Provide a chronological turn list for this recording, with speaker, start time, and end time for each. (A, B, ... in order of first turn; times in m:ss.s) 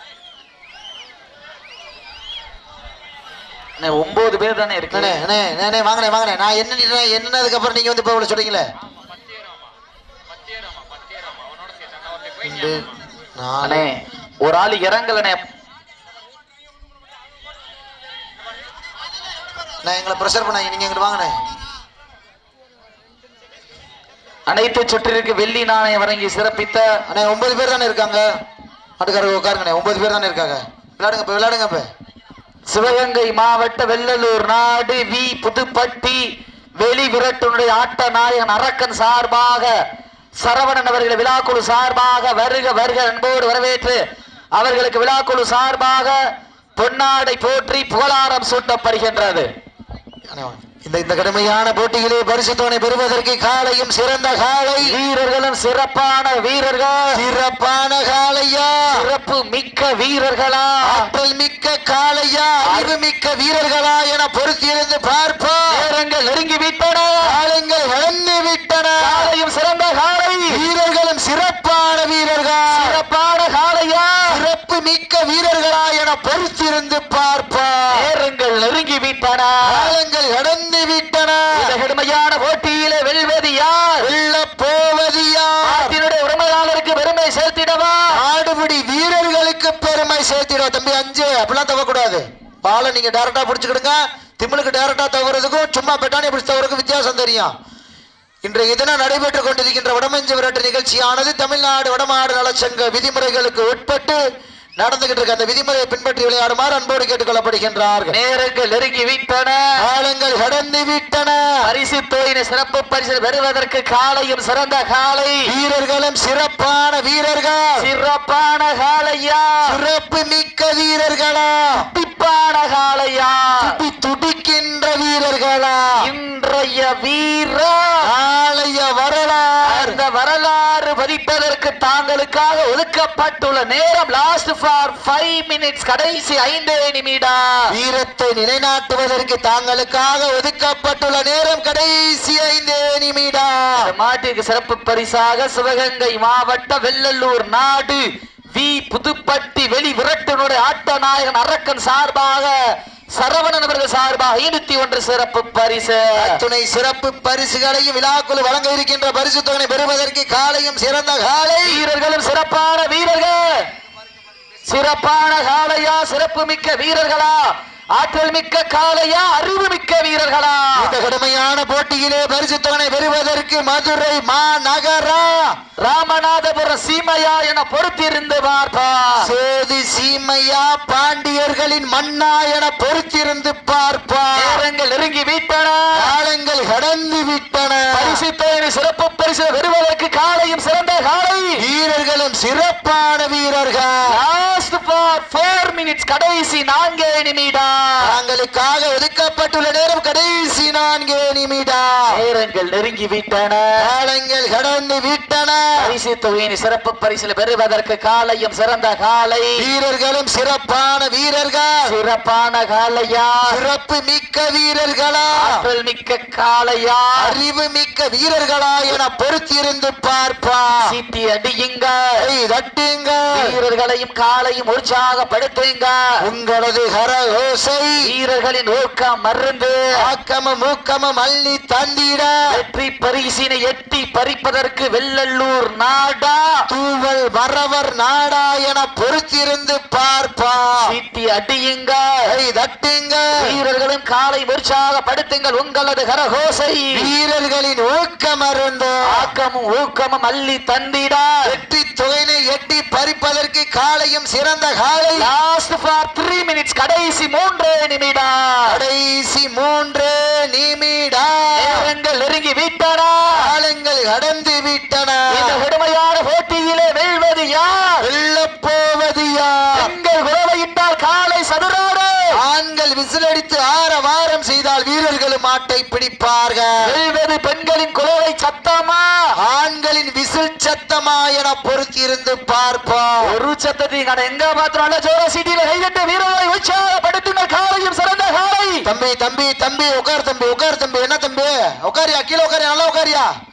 0:03.8-0:05.2 A
0:04.9-0:08.6 B
0:12.4-0:13.8 B
0:13.6-0:15.4 A
0:19.8-0:21.4 B
0:24.5-0:27.0 A
0:27.1-0:28.2 B
0:29.0-0:31.9 B
0:32.7-0:36.3 A
0:36.8-0:39.7 A
0:40.4-0:44.0 A
0:44.5-0:46.2 A
0:46.8-0:49.5 A
0:50.3-0:55.0 B
0:54.8-0:57.2 A
0:57.1-0:58.9 B
0:58.9-1:01.1 A
1:00.8-1:05.8 B
1:02.6-1:02.9 A
1:05.7-1:07.4 A
1:07.2-1:09.3 B
1:09.0-1:10.6 A
1:10.5-1:13.0 B
1:12.7-1:14.4 A
1:14.3-1:18.0 B
1:17.9-1:19.9 A
1:19.6-1:21.7 B
1:21.5-1:24.1 A
1:24.0-1:25.9 B
1:25.6-1:28.1 A
1:28.1-1:37.5 B
1:38.4-1:44.2 B
1:44.8-1:48.1 B
1:48.1-1:49.7 A
1:49.8-1:51.4 B
1:51.6-1:55.5 A
1:55.4-1:57.8 B
1:57.8-1:59.8 A
1:59.6-2:01.9 B
2:01.8-2:03.8 A
2:03.6-2:06.0 B
2:06.0-2:08.0 A
2:08.0-2:10.0 B
2:09.6-2:17.7 A
2:17.7-2:23.9 B
2:23.8-2:36.4 A
2:36.2-2:41.8 B
2:41.6-2:43.7 A
2:44.7-2:50.9 A
2:50.8-2:55.5 B
2:55.8-2:59.3 A
2:59.2-3:04.6 B
3:04.4-3:06.1 A
3:05.9-3:08.2 B
3:07.9-3:11.6 A
3:11.6-3:14.1 B
3:14.1-3:18.1 A
3:18.0-3:22.2 B
3:22.1-3:23.8 A
3:23.8-3:25.8 B
3:25.8-3:29.6 A
3:29.6-3:31.9 B
3:31.8-3:33.6 A
3:33.5-3:35.6 B
3:35.4-3:37.4 A
3:37.2-3:40.9 B
3:40.8-3:42.2 A
3:42.2-3:43.5 B
3:43.3-3:46.0 A
3:46.2-3:48.0 B
3:48.0-3:49.9 A
3:50.0-3:52.4 B
3:52.5-3:56.6 A
3:56.7-4:00.9 B
4:00.8-4:02.2 A
4:02.2-4:03.4 B
4:03.4-4:07.1 A
4:06.9-4:09.3 B
4:09.1-4:11.6 A
4:11.4-4:15.3 B
4:15.2-4:18.8 A
4:18.7-4:21.9 B
4:21.6-4:23.3 A
4:23.3-4:25.6 B
4:25.3-4:28.0 A
4:28.0-4:29.9 B
4:29.8-4:32.3 A
4:32.3-4:36.8 B
4:36.8-4:39.3 A
4:39.4-4:43.3 B
4:43.2-4:48.8 A
4:48.8-4:53.3 B